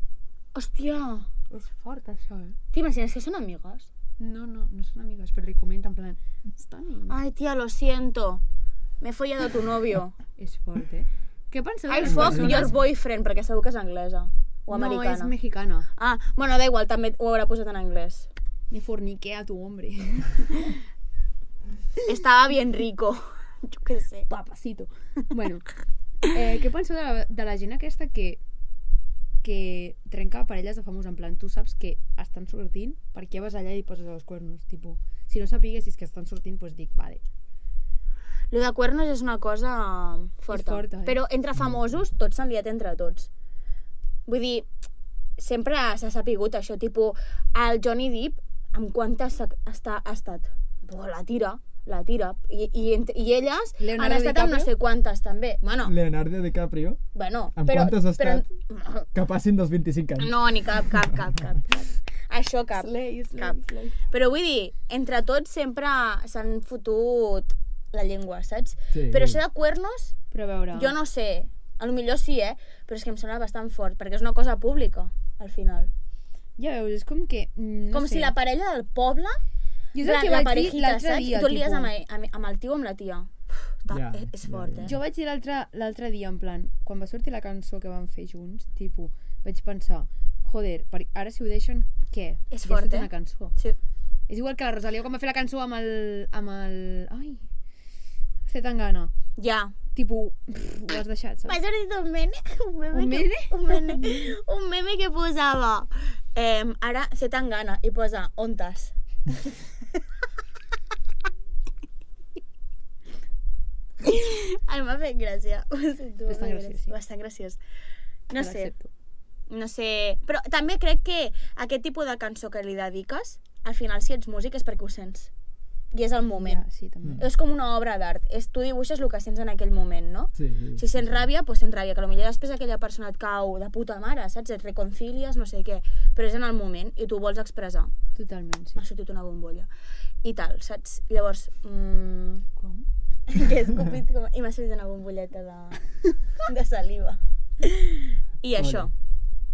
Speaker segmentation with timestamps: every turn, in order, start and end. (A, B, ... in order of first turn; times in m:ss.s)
0:00.6-0:01.3 A
0:01.5-0:02.6 B
0:02.7-0:03.9 A
0:04.2-0:07.2 B
0:07.1-0:08.4 A
0:09.0-0:10.2 A
0:10.4-0:12.7 B
0:11.9-0:15.3 A
0:12.0-0:12.7 C
0:14.7-0:15.9 B
0:16.0-0:18.3 A
0:18.7-0:20.7 B
0:22.0-0:24.3 A
0:24.3-0:25.7 B
0:26.2-0:28.4 B
0:29.4-0:37.2 B
0:38.5-0:43.3 A
0:40.5-0:41.2 B
0:41.6-0:42.0 C
0:44.3-0:44.7 A
0:45.4-0:55.9 A
0:53.8-0:54.7 B
0:55.8-0:57.0 C
0:57.1-0:59.1 A
0:57.6-0:58.5 C
0:59.1-1:00.7 C
1:00.2-1:10.2 A
1:02.8-1:04.0 B
1:08.9-1:09.4 C
1:10.3-1:10.9 B
1:10.7-1:15.9 A
1:16.6-1:18.3 B
1:17.9-1:19.4 A
1:19.9-1:21.9 B
1:20.0-1:25.0 A
1:23.9-1:25.0 C
1:24.8-1:33.6 B
1:32.5-1:33.8 A
1:34.3-1:37.4 B
1:38.5-1:39.1 B
1:39.4-1:39.7 A
1:40.0-1:41.6 B
1:41.5-1:49.5 A
1:42.9-1:44.3 B
1:54.0-1:57.6 A
1:56.3-1:57.0 B
1:58.3-1:58.7 A
1:58.4-1:58.9 B
1:59.5-2:05.3 A
2:05.9-2:06.6 A
2:06.4-2:07.3 B
2:07.2-2:17.9 A
2:10.4-2:11.3 C
2:18.2-2:18.8 B
2:18.8-2:19.7 A
2:20.2-2:22.4 A
2:22.6-2:22.9 B
2:23.3-2:25.8 A
2:26.4-2:28.9 A
2:28.6-2:28.9 C